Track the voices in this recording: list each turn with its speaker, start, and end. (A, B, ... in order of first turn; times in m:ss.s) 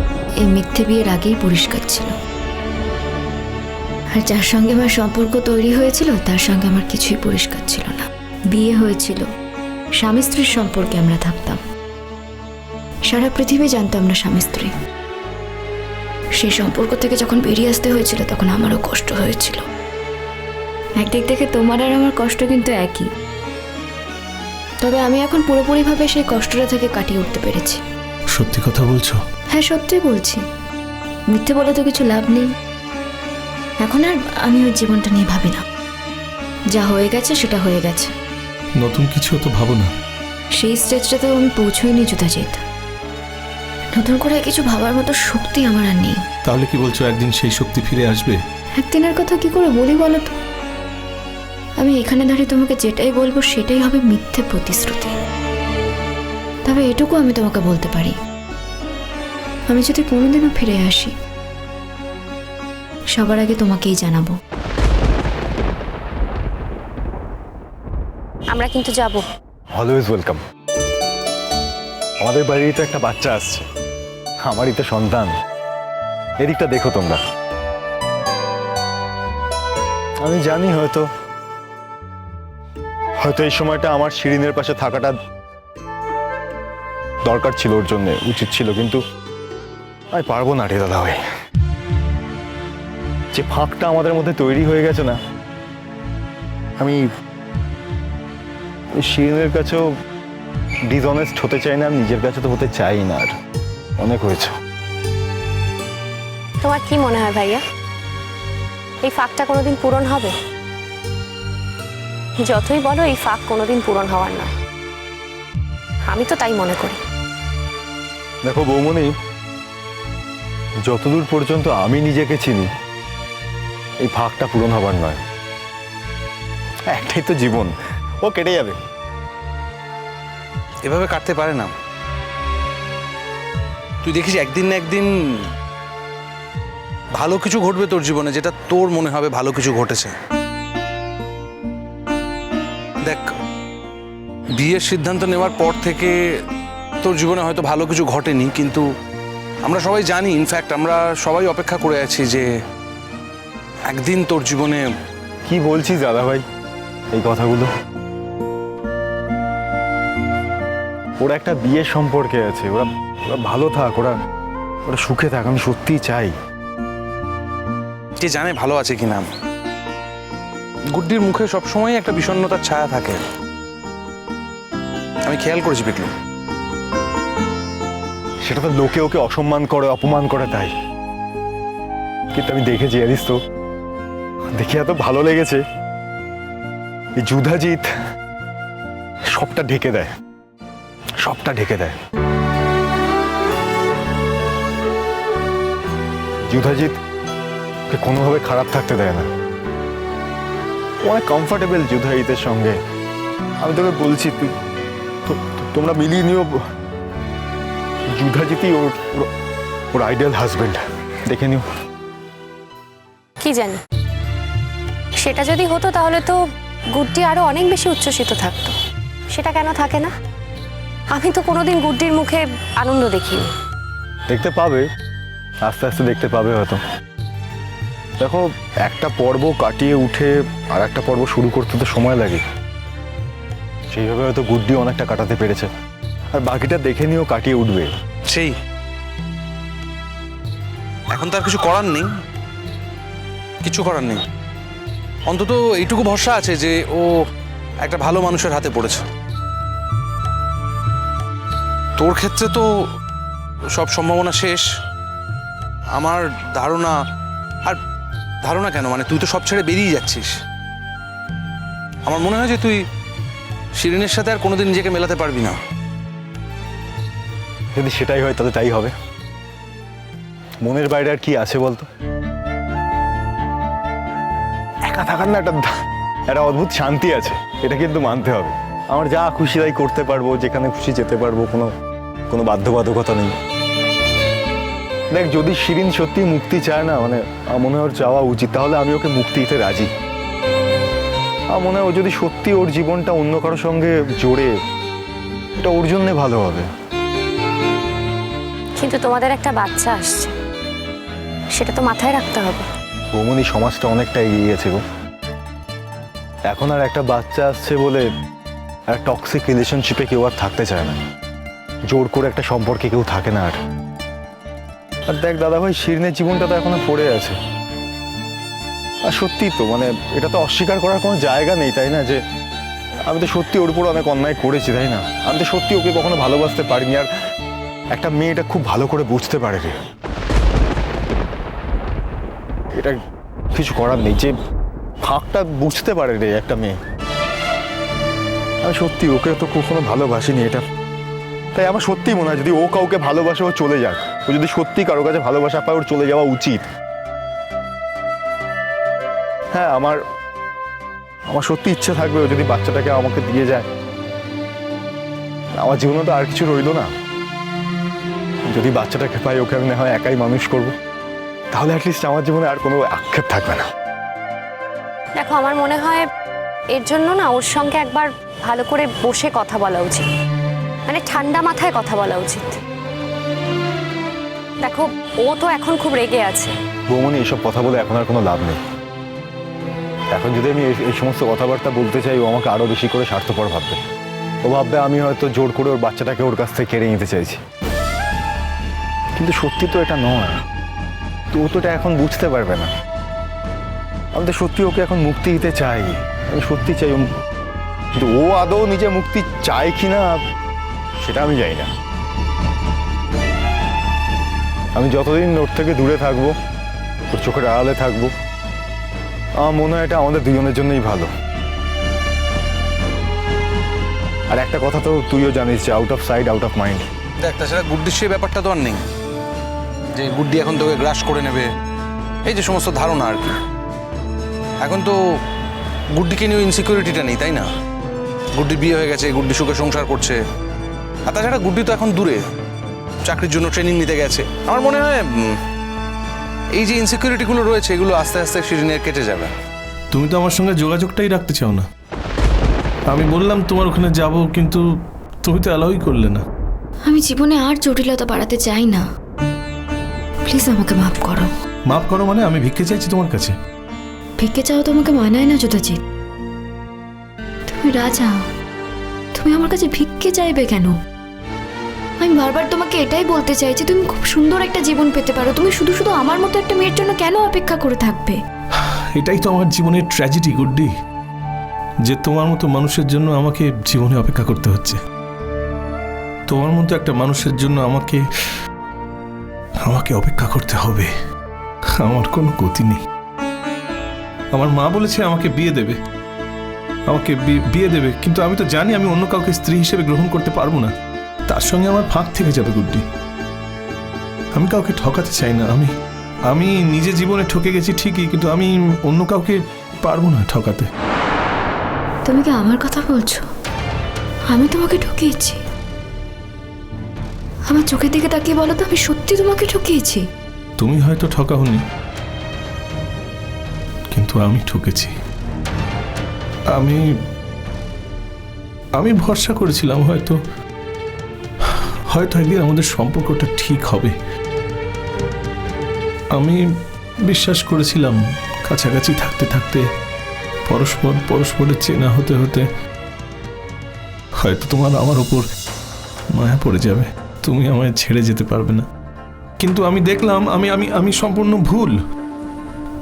0:00.4-0:02.1 A
0:04.2-0:09.3 A
0:10.0-0:11.6 A
0:13.1-0:14.7 A
0:16.4-0:19.6 A
0:21.0-0:23.1 A
0:24.8-0:27.8 A
0:28.3-0:29.2 B
0:29.5-0:30.4 A
0:31.3-0:32.5 A
0:33.8-0:35.6 A
0:36.7-0:38.1 A
0:38.8-0:39.9 B
0:40.6-0:42.6 A
0:44.0-0:46.2 A
0:46.4-0:48.4 B
0:48.8-0:50.3 A
0:51.8-0:55.1 A
0:56.7-0:58.2 A
0:59.7-1:01.1 A
1:03.2-1:04.4 A
1:08.5-1:09.2 C
1:09.7-1:10.4 D
1:12.2-1:13.6 D
1:14.4-1:15.3 D
1:16.4-1:17.2 D
1:20.2-1:21.1 D
1:23.2-1:25.2 D
1:27.2-1:29.0 D
1:30.1-1:31.2 D
1:33.3-1:35.2 D
1:39.0-1:39.9 D
1:40.9-1:43.3 D
1:44.0-1:44.5 D
1:46.6-1:47.6 C
1:49.0-1:50.4 C
1:52.4-1:54.5 C
1:56.1-1:57.0 C
1:58.4-1:59.2 D
2:00.8-2:02.7 D
2:04.0-2:05.2 D
2:06.9-2:08.8 D
2:10.8-2:11.7 E
2:14.0-2:15.1 E
2:17.2-2:20.1 E
2:23.0-2:23.3 E
2:24.6-2:26.1 E
2:27.0-2:28.9 E
2:29.6-2:32.5 E
2:33.9-2:34.9 E
2:35.5-2:36.4 D
2:37.1-2:37.7 D
2:41.2-2:44.2 D
2:44.9-2:46.3 D
2:48.2-2:49.3 E
2:50.9-2:53.2 E
2:55.2-2:56.1 E
2:58.4-3:00.7 D
3:02.3-3:03.4 D
3:04.5-3:05.6 D
3:07.2-3:07.9 D
3:09.3-3:10.1 D
3:11.2-3:12.0 D
3:16.5-3:17.0 D
3:17.9-3:19.3 D
3:21.0-3:22.8 D
3:23.6-3:24.5 D
3:25.3-3:26.5 D
3:28.1-3:29.3 D
3:29.9-3:31.6 D
3:33.4-3:33.8 C
3:35.2-3:36.4 C
3:36.9-3:38.8 C
3:39.3-3:40.1 C
3:41.1-3:43.5 C
3:44.3-3:44.8 D
3:45.6-3:46.8 D
3:48.2-3:52.4 D
3:53.9-3:55.7 D
3:56.3-3:57.9 D
3:58.3-3:58.5 E
4:01.1-4:02.1 E
4:03.6-4:04.2 E
4:05.3-4:07.1 E
4:07.8-4:09.0 E
4:12.0-4:12.6 E
4:13.7-4:14.6 E
4:16.0-4:17.0 E
4:18.4-4:20.3 E
4:22.0-4:22.8 E
4:23.8-4:25.6 E
4:27.8-4:28.9 D
4:30.6-4:31.9 D
4:34.8-4:35.7 D
4:36.3-4:41.7 D
4:42.3-4:43.3 D
4:45.1-4:49.9 D
4:51.5-4:54.5 D
4:55.6-4:56.7 D
4:58.8-5:00.3 C
5:01.5-5:02.7 C
5:03.1-5:04.8 D
5:06.5-5:08.1 D
5:08.9-5:11.0 D
5:11.9-5:13.6 D
5:15.1-5:17.4 D
5:19.0-5:22.2 D
5:23.1-5:27.1 D
5:27.9-5:29.8 D
5:33.5-5:34.3 D
5:35.0-5:36.8 D
5:38.6-5:40.6 D
5:41.6-5:46.6 D
5:49.5-5:50.0 D
5:51.3-5:53.7 D
5:55.6-5:56.9 D
5:58.5-6:00.7 D
6:01.5-6:03.6 D
6:05.2-6:06.1 C
6:06.7-6:10.1 C
6:10.9-6:12.6 C
6:14.6-6:16.6 C
6:16.9-6:18.6 D
6:20.1-6:23.8 D
6:24.4-6:27.4 D
6:29.2-6:30.4 D
6:31.3-6:32.7 D
6:34.2-6:37.1 D
6:38.0-6:40.2 D
6:41.0-6:41.7 D
6:44.8-6:46.3 D
6:47.1-6:48.1 D
6:49.4-6:51.1 D
6:54.3-6:56.9 D
6:57.2-6:58.8 E
7:00.0-7:01.5 E
7:02.3-7:03.4 E
7:04.6-7:05.0 E
7:05.9-7:07.5 E
7:08.3-7:10.2 E
7:11.1-7:12.2 E
7:13.0-7:15.4 E
7:16.6-7:19.3 E
7:19.9-7:21.7 B
7:22.9-7:24.6 B
7:25.2-7:26.2 B
7:26.9-7:28.8 A
7:30.3-7:31.3 A
7:31.7-7:33.4 B
7:34.2-7:35.8 A
7:37.5-7:38.2 A
7:39.1-7:40.8 A
7:42.0-7:48.2 A
7:48.6-7:50.7 B
7:51.8-7:54.8 B
7:56.3-7:58.0 B
7:59.6-8:00.9 B
8:01.8-8:02.8 B
8:04.3-8:05.8 B
8:06.9-8:10.7 B
8:11.3-8:12.8 B
8:14.3-8:15.7 B
8:16.3-8:20.7 B
8:22.1-8:23.3 A
8:24.3-8:25.4 A
8:27.5-8:30.0 A
8:30.6-8:31.6 B
8:33.9-8:34.9 B
8:36.5-8:36.8 B
8:38.8-8:40.2 B
8:41.4-8:44.0 B
8:46.1-8:46.4 B
8:47.0-8:49.6 B
8:50.5-8:52.5 B
8:54.2-8:55.3 B
8:56.1-8:58.7 B
8:59.4-9:01.7 B